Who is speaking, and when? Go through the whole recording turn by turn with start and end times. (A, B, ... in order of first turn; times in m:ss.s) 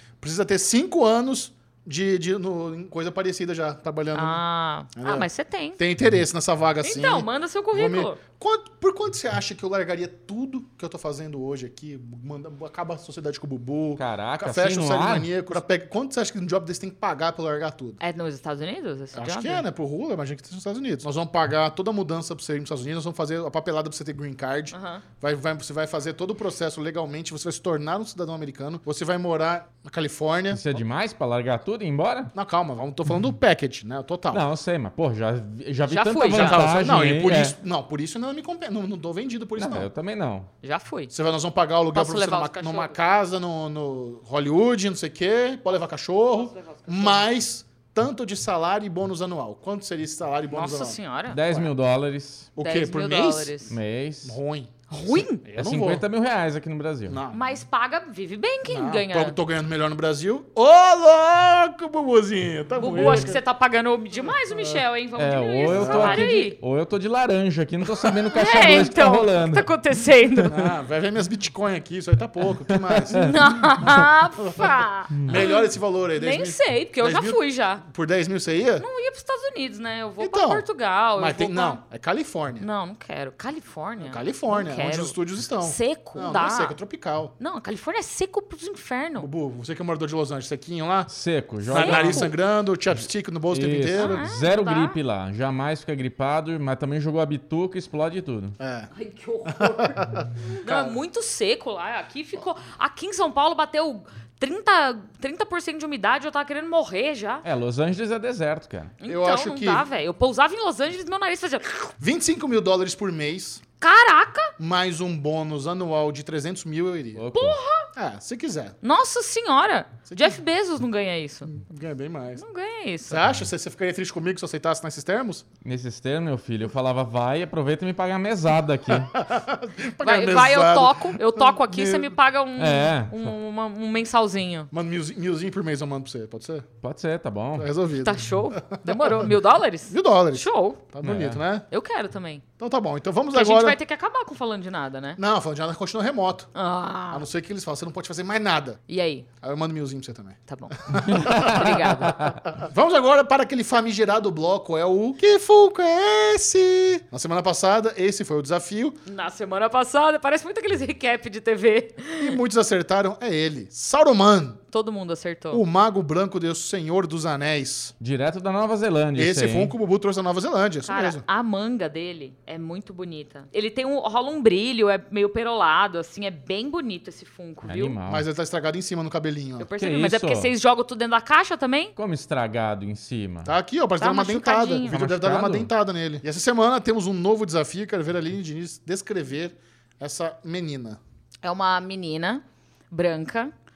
0:00.2-0:04.4 A
0:04.1-0:05.8 B
0:04.9-0:18.0 A
0:06.8-0:08.2 B
0:14.0-0:15.3 C
0:18.0-0:19.6 B
0:19.1-0:30.6 A
0:24.7-0:25.0 B
0:30.5-0:32.3 C
0:32.3-0:34.4 A
0:34.3-0:37.6 C
0:35.9-0:36.7 B
0:36.3-0:39.9 A
0:39.6-0:40.5 C
0:40.6-0:41.1 B
0:41.1-0:51.0 A
0:41.9-0:43.0 B
0:46.4-0:47.3 B
0:50.5-0:51.4 B
0:51.3-0:52.5 C
0:52.6-0:53.6 A
0:52.6-0:53.7 B
0:53.7-0:54.4 C
0:54.2-0:56.0 A
0:54.9-0:55.4 B
0:55.5-0:57.2 C
0:57.1-0:57.6 A
0:57.3-0:59.4 B
0:58.7-1:03.4 A
1:02.8-1:06.6 B
1:04.5-1:04.8 A
1:05.2-1:09.7 C
1:05.7-1:06.3 A
1:08.0-1:08.3 A
1:08.3-1:10.7 B
1:10.5-1:18.8 A
1:12.7-1:13.3 C
1:13.1-1:17.8 B
1:18.8-1:21.8 B
1:20.2-1:22.7 A
1:22.6-1:26.8 B
1:24.0-1:27.3 A
1:27.4-1:29.3 B
1:29.2-1:31.1 A
1:31.1-1:32.3 C
1:31.6-1:34.2 A
1:31.7-1:32.3 B
1:33.5-1:38.6 C
1:34.0-1:35.0 B
1:38.6-1:38.9 A
1:38.9-1:47.4 B
1:39.4-1:41.0 A
1:47.4-1:48.9 C
1:49.0-1:51.9 B
1:49.1-1:49.9 A
1:52.0-1:53.6 A
1:53.8-1:54.5 B
1:54.6-1:57.2 A
1:57.2-1:57.6 C
1:57.3-1:57.9 B
1:57.9-1:58.8 A
1:58.8-2:01.5 B
2:00.1-2:00.4 A
2:01.5-2:02.4 A
2:02.4-2:03.2 B
2:03.1-2:05.4 A
2:05.6-2:09.1 C
2:09.0-2:12.1 A
2:10.0-2:14.7 B
2:12.6-2:13.3 C
2:14.7-2:16.7 A
2:16.8-2:17.7 C
2:17.6-2:19.3 A
2:18.0-2:20.8 B
2:19.9-2:21.7 A
2:21.0-2:21.4 C
2:21.7-2:22.4 B
2:22.6-2:23.8 A
2:23.3-2:25.2 B
2:25.2-2:26.5 A
2:26.5-2:27.2 B
2:27.1-2:28.8 A
2:28.9-2:29.3 B
2:29.4-2:39.0 A
2:30.5-2:32.3 B
2:31.2-2:32.3 C
2:39.0-2:42.4 B
2:42.2-2:44.6 A
2:44.7-2:45.6 B
2:45.5-2:47.9 A
2:48.0-2:49.7 C
2:49.2-2:51.2 A
2:50.8-2:58.0 B
2:57.6-2:58.2 C
2:58.0-2:59.7 A
2:59.6-3:01.9 B
2:59.8-3:00.5 C
3:02.0-3:03.5 C
3:03.4-3:11.0 A
3:04.0-3:05.0 B
3:04.9-3:05.7 C
3:11.4-3:13.5 B